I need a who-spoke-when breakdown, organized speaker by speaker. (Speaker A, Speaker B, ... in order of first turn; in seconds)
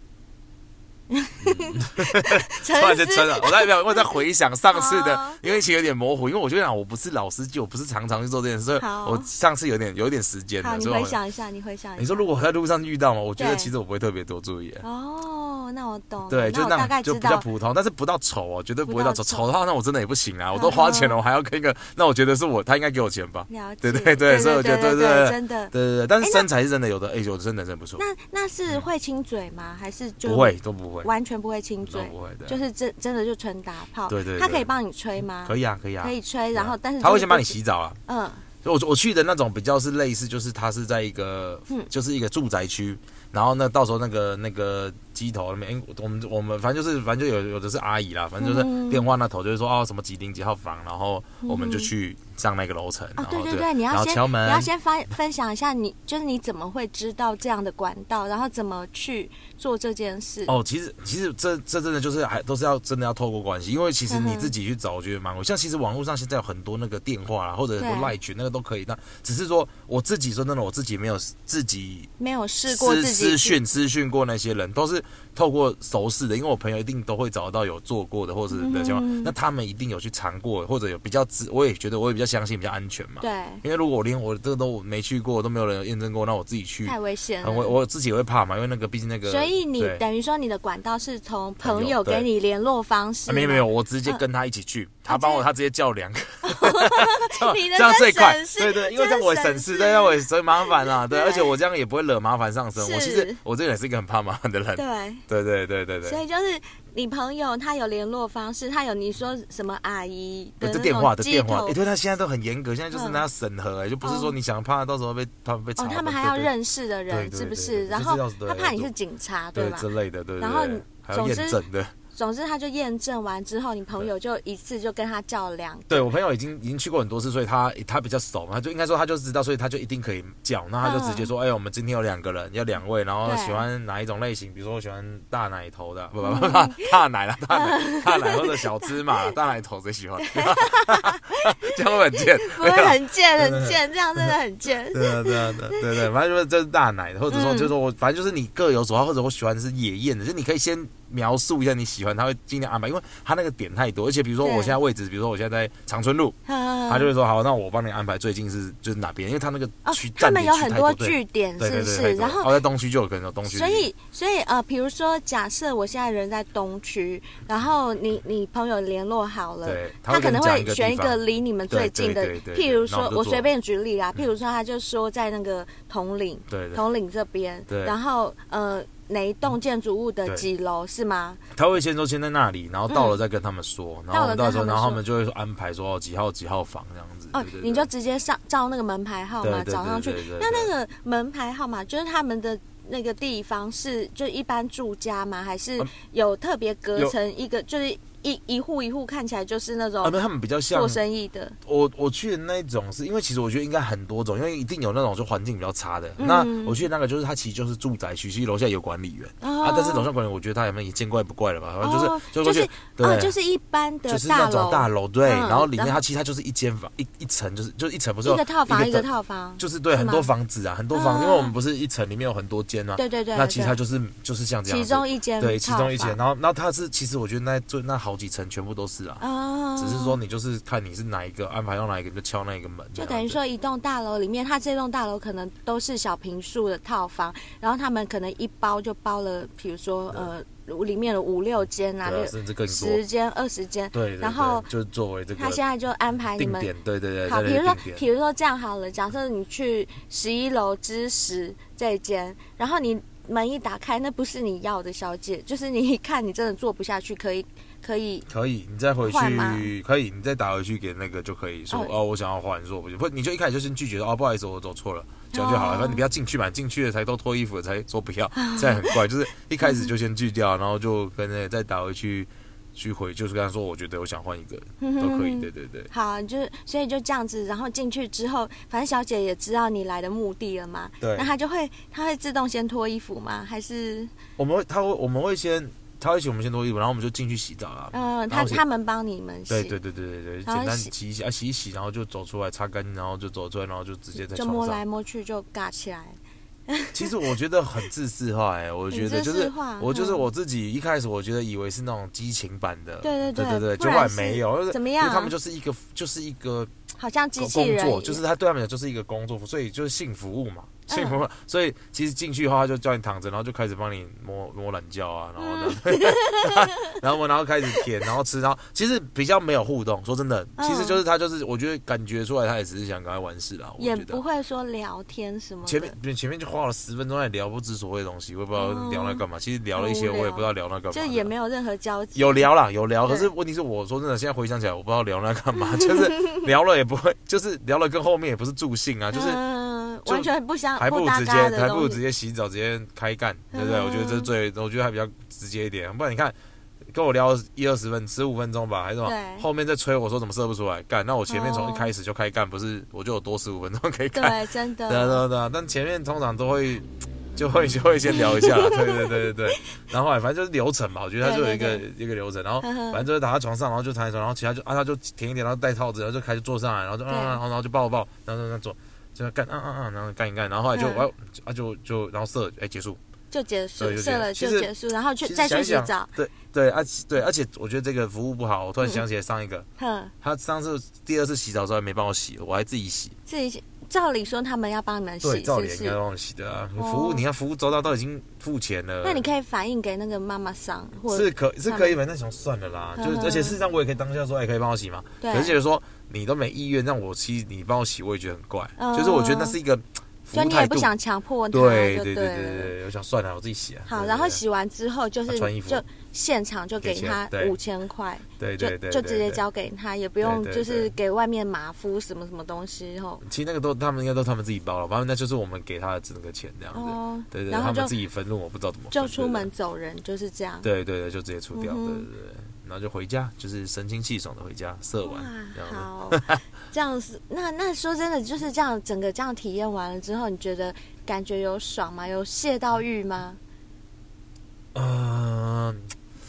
Speaker A: 1.1-4.2, 4.7-5.5, 8.8-9.3, 10.6-12.3, 13.4-13.7, 14.8-17.5, 18.9-19.5, 20.5-21.2, 23.5-26.5, 28.0-38.4, 48.4-49.1, 51.4-51.9, 53.2-60.5, 64.1-64.5, 67.8-68.1, 72.2-73.6, 78.5-79.3, 83.2-83.6, 86.8-87.8, 89.3-94.2, 95.1-95.4, 96.4-101.5, 102.8-103.4, 104.8-105.2, 106.0-111.8, 112.9-113.2, 114.0-114.3, 115.8-119.9, 120.4-121.6, 122.1-126.1, 130.8-131.3, 133.2-133.7, 136.2-136.9, 137.5-139.3, 140.3-146.0, 147.3-147.7, 154.4-154.7, 156.5-157.1, 159.8-162.6, 163.5-181.4, 182.9-183.2, 184.1-185.0, 187.3-200.2, 200.7-201.6, 206.2-206.8, 209.4-210.1, 211.8-216.0, 218.2-220.3, 220.9-221.5, 223.0-223.8, 224.7-226.2, 229.2-230.2, 233.0-244.7, 245.4-246.7, 247.2-258.3, 259.0-259.7, 265.3-266.0, 268.4-269.0, 269.6-269.9, 274.8-284.1, 287.9-289.8, 290.5-290.9, 294.2-296.2, 296.7-297.1, 298.9-300.2, 303.0-305.3, 307.0-308.2, 310.9-311.2, 315.4-317.0, 320.6-321.0, 323.8-325.9, 328.6-329.2, 329.8-332.5, 333.1-333.3, 339.1-342.0, 343.5-344.3, 349.0-349.4, 351.3-351.9, 354.1-355.2, 358.3-359.3, 361.2-361.8, 362.6-363.1, 367.1-367.4, 370.7-371.1, 373.3-376.1, 379.8-380.1, 383.3-386.0, 386.8-387.2, 389.0-392.0, 393.0-393.6, 395.2-395.5, 398.8-399.6, 400.3-402.7, 403.9-413.2, 416.7-417.9, 418.9-420.7, 421.6-422.1, 425.0-433.4
Speaker B: 1.4-11.2, 12.0-14.8, 16.3-28.0, 30.2-31.1, 31.8-32.6, 34.1-34.7, 35.4-38.0, 38.6-54.7, 60.5-72.1, 72.7-90.0, 91.6-92.3, 93.3-106.2, 110.6-116.5, 117.1-118.9, 119.5-122.0, 125.9-144.3, 144.9-156.4, 156.9-163.9, 169.7-171.2, 171.7-173.5, 176.5-176.8, 177.7-177.9, 181.6-187.9, 189.4-190.7, 200.0-201.0, 201.7-213.3, 214.1-219.1, 219.6-229.2, 229.8-233.4, 242.0-243.0, 243.9-245.6, 246.4-248.1, 258.3-275.9, 281.0-281.3, 284.4-288.6, 289.5-294.8, 296.9-306.7, 307.4-324.2, 325.7-331.3, 332.1-339.4, 340.1-346.4, 346.9-373.0, 373.8-374.7, 375.2-379.7, 380.2-383.1, 385.2-389.3, 391.1-400.9, 401.5-404.4, 405.3-405.8, 406.8-407.6, 408.4-409.4, 410.2-410.9, 413.2-419.5, 420.6-426.4, 434.7-435.9